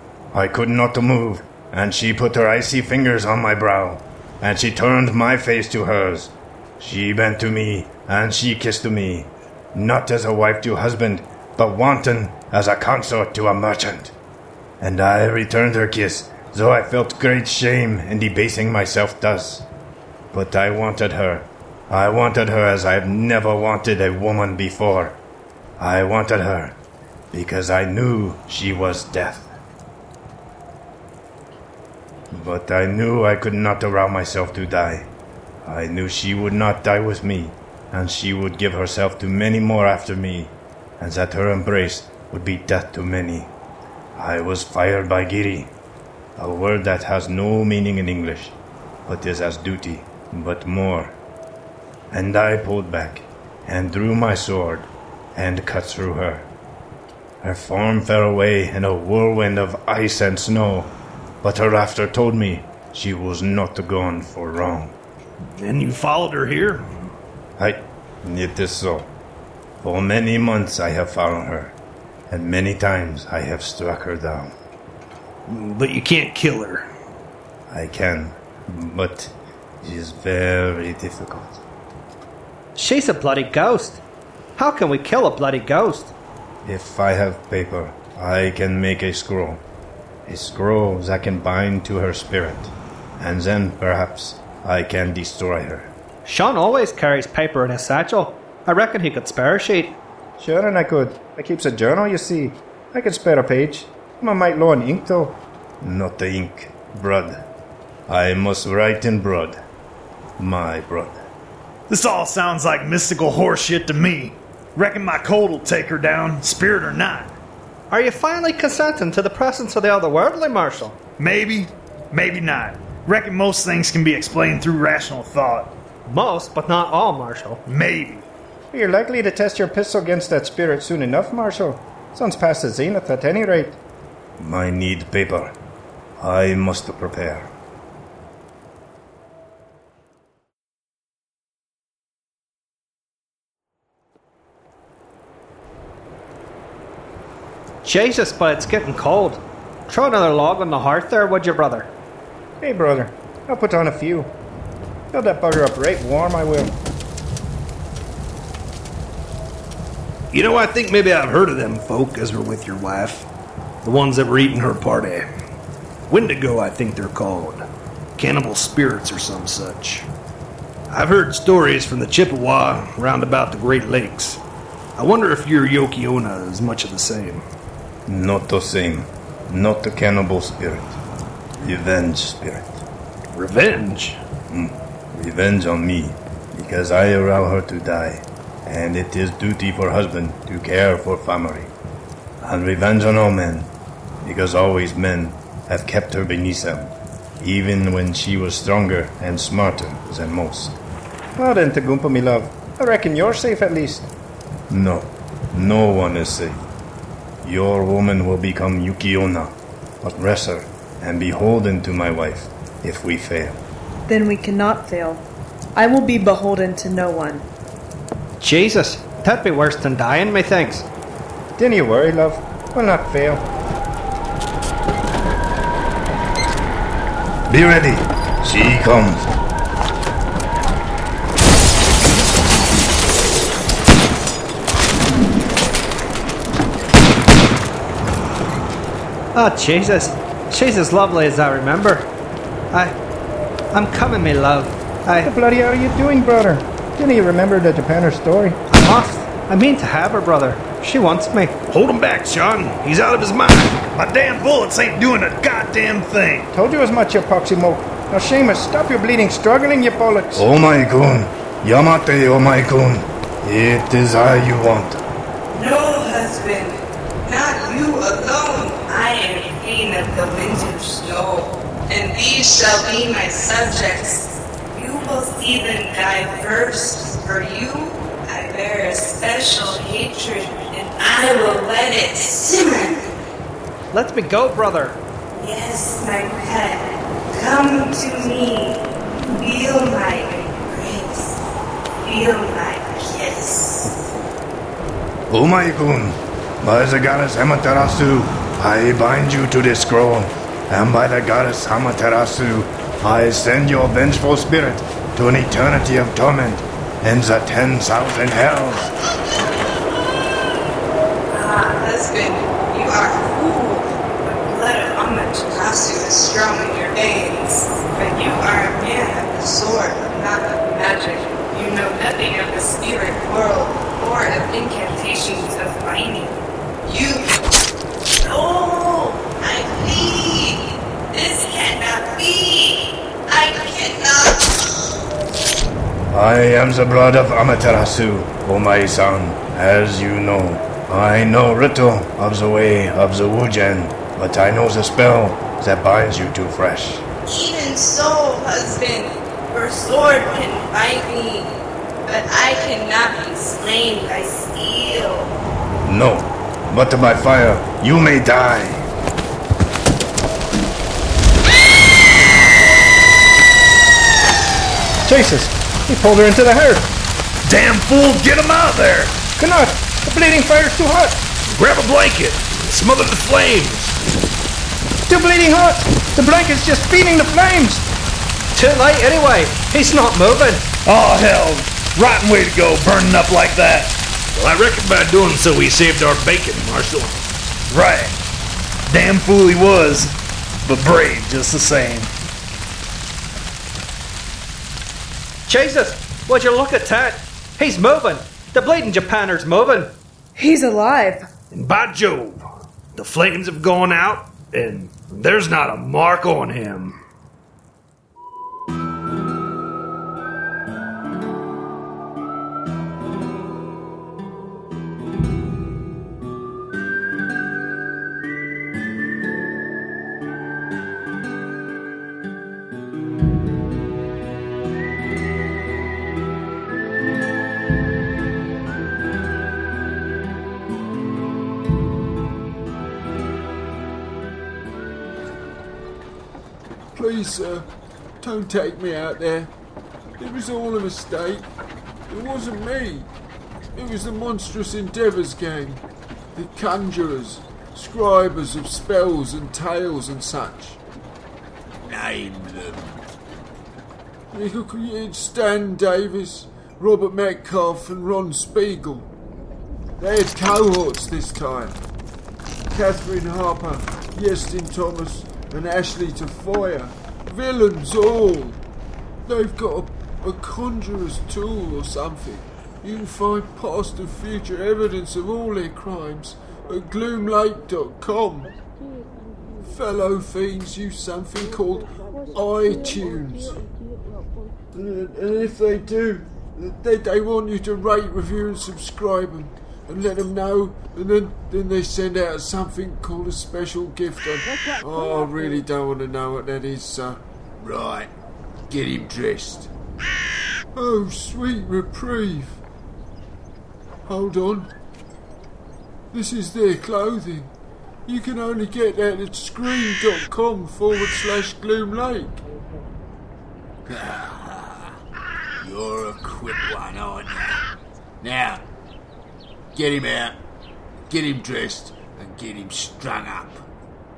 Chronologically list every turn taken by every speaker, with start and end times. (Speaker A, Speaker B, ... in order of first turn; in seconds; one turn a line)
Speaker A: 0.3-14.1
Speaker A: 14.8-19.6
Speaker A: 20.3-25.2
Speaker A: 25.8-26.8
Speaker A: 27.3-29.5
Speaker A: 32.3-35.1
Speaker A: 35.6-43.5
Speaker A: 44.1-45.7
Speaker A: 46.4-51.2
Speaker A: 52.1-56.5
Speaker A: 57.4-64.9
Speaker B: 65.5-66.8
Speaker A: 67.6-69.1
Speaker A: 69.8-71.8
Speaker A: 72.3-74.5
Speaker B: 75.5-76.8
Speaker A: 77.7-81.6
Speaker C: 82.8-84.0
Speaker C: 84.5-86.1
Speaker A: 86.6-89.6
Speaker A: 90.2-95.9
Speaker C: 96.2-100.0
Speaker D: 100.4-105.4
Speaker A: 105.8-107.5
Speaker A: 108.1-109.6
Speaker A: 110.4-111.3
Speaker E: 111.9-117.3
Speaker C: 117.9-121.0
Speaker E: 121.2-125.7
Speaker C: 126.0-127.6
Speaker E: 127.7-128.3
Speaker D: 128.7-133.8
Speaker A: 134.4-135.5
Speaker A: 136.2-137.5
Speaker C: 147.8-151.9
Speaker D: 152.6-154.3
Speaker D: 155.1-156.8
Speaker B: 160.3-163.3
Speaker B: 163.8-165.2
Speaker B: 166.1-167.6
Speaker B: 168.2-170.1
Speaker B: 170.9-174.4
Speaker B: 175.0-177.4
Speaker A: 178.1-181.0
Speaker A: 181.6-182.8
Speaker B: 183.3-184.2
Speaker A: 184.5-191.7
Speaker A: 192.4-193.7
Speaker A: 194.2-200.8
Speaker D: 201.4-204.1
Speaker A: 204.7-206.6
Speaker A: 207.4-213.6
Speaker F: 214.1-217.5
Speaker C: 218.4-220.8
Speaker D: 221.6-223.4
Speaker A: 227.5-229.3
Speaker C: 239.3-242.1
Speaker C: 242.7-243.0
Speaker C: 243.7-245.3
Speaker D: 245.2-248.6
Speaker C: 248.7-251.6
Speaker B: 251.7-253.8
Speaker E: 253.9-256.5
Speaker D: 256.5-260.4
Speaker A: 260.4-265.0
Speaker G: 265.5-283.1
Speaker C: 283.9-285.0
Speaker G: 285.3-291.4
Speaker G: 292.0-294.0
Speaker A: 295.3-308.9
Speaker G: 311.3-327.3
Speaker G: 328.2-334.7
Speaker A: 336.1-347.0
Speaker G: 347.3-355.3
Speaker A: 355.8-358.9
Speaker D: 365.0-366.9
Speaker E: 367.5-369.1
Speaker D: 369.4-371.2
Speaker B: 371.5-373.9
Speaker D: 375.1-377.9
Speaker C: 378.5-380.6
Speaker E: 380.9-383.9
Speaker B: 384.3-387.2
Speaker E: 387.7-388.2
Speaker E: 388.9-390.1
Speaker E: 390.6-392.1
Speaker C: 395.4-399.9
Speaker F: 400.3-401.3
Speaker B: 401.5-402.4
Speaker B: 402.9-406.9
Speaker H: 436.9-437.7
Speaker H: 438.2-439.5
Speaker H: 440.2-441.5
Speaker H: 442.1-443.1
Speaker H: 443.7-445.8
Speaker H: 446.3-450.8
Speaker I: 451.8-453.0
Speaker H: 454.3-459.1
Speaker H: 460.0-461.8
Speaker H: 462.7-468.6
Speaker H: 469.2-478.5
Speaker H: 479.6-483.6
Speaker H: 484.7-497.2
Speaker I: 497.6-498.1
Speaker I: 498.7-499.7
Speaker H: 500.7-502.6
Speaker H: 504.1-504.7
Speaker H: 506.1-507.5
Speaker H: 508.1-512.4
Speaker I: 513.9-514.9
Speaker I: 515.6-517.6
Speaker I: 518.2-518.6
Speaker I: 519.7-520.4
Speaker I: 521.1-523.7